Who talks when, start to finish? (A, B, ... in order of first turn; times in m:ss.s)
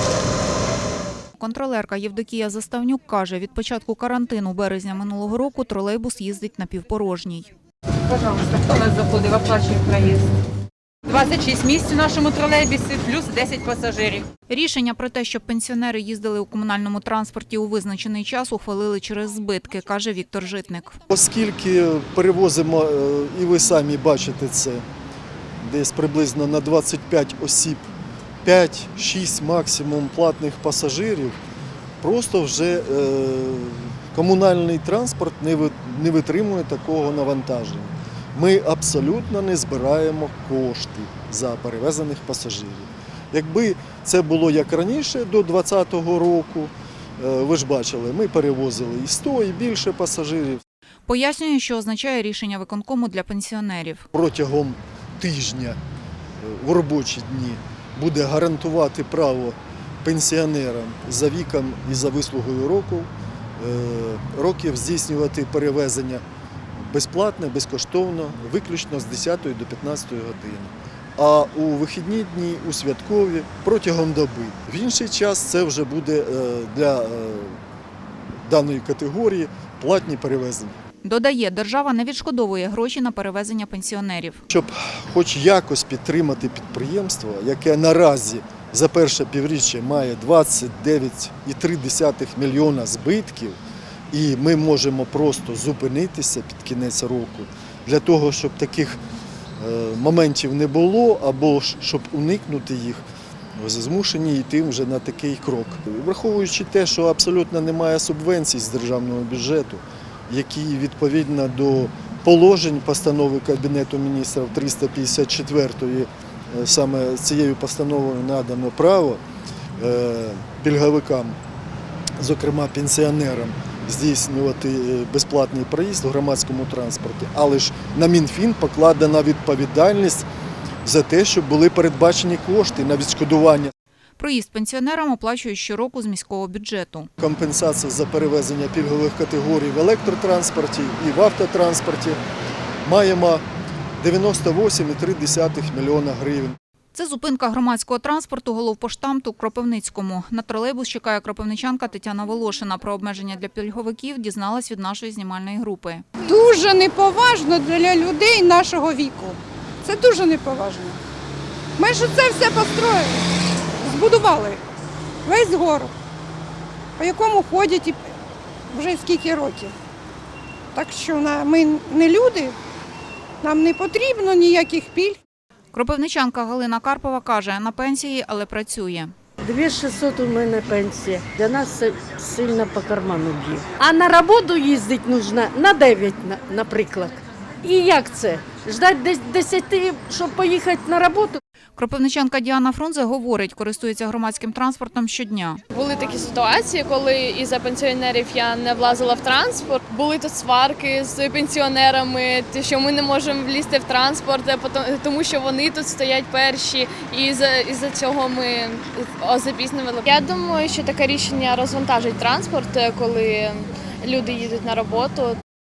0:01.4-0:07.5 A
0:08.1-0:10.3 B
0:11.1-0:14.3 B
0:14.5-0:21.0 A
0:21.1-0:24.8 C
0:25.6-0:27.8 C
0:28.4-0:31.4 C
0:32.0-0:50.6 C
0:51.1-0:54.1 A
0:54.1-0:55.8 C
0:56.4-1:06.2 C
1:06.8-1:17.6 C
1:18.5-1:20.8 C
1:21.0-1:24.4 A
1:24.5-1:33.6 C
1:34.1-1:39.0 C
1:39.6-1:43.0 C
1:43.6-1:59.2 C
1:59.8-2:01.4 C
2:02.2-2:10.3 C
2:10.8-2:13.7 C
2:14.2-2:17.1 A
2:17.2-2:22.2 C
2:22.8-2:23.4 C
2:24.0-2:26.6 C
2:26.9-2:36.0 A
2:36.2-2:41.0 D
2:41.8-2:44.6 D
2:45.2-2:45.9 D
2:47.0-2:48.0 D
2:48.7-2:49.8 D
2:50.7-2:52.6 D
2:53.4-2:55.2 D
2:55.7-2:59.1 A
2:59.4-3:11.4 E
3:11.8-3:15.6 A
3:15.7-3:35.4 F